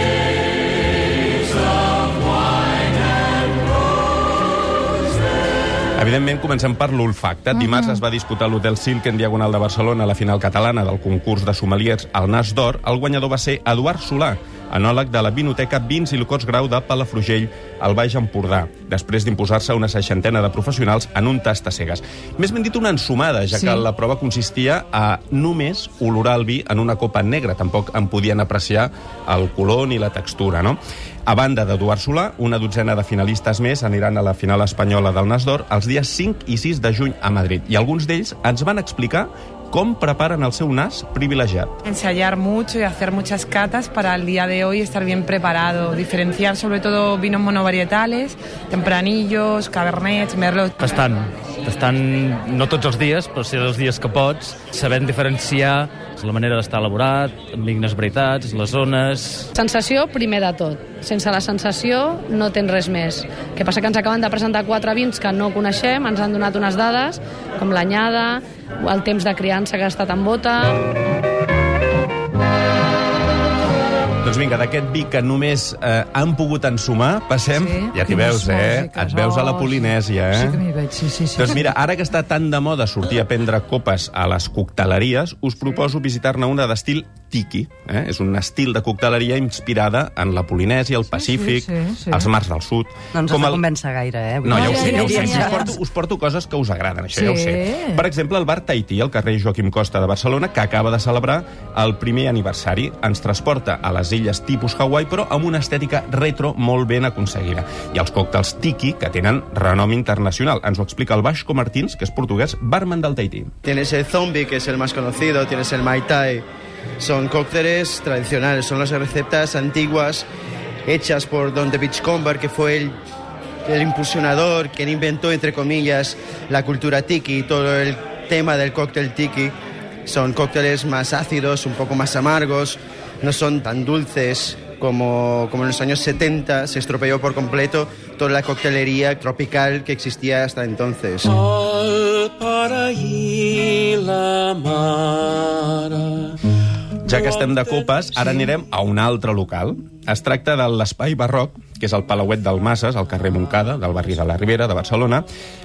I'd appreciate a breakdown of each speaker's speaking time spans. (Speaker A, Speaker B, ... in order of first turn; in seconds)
Speaker A: 6.0-41.8, 74.2-80.6, 81.3-93.7, 94.4-113.5, 147.0-155.2
Speaker B: 7.5-8.0, 23.5-23.8, 77.5-81.7, 91.1-92.3, 94.5-95.7, 97.1-98.0
Speaker C: 41.9-50.7
Speaker D: 50.8-59.3
Speaker E: 59.5-70.8
Speaker F: 93.1-95.7
Speaker G: 113.6-116.4, 117.0-120.2, 120.9-123.0, 123.7-129.5, 130.1-141.3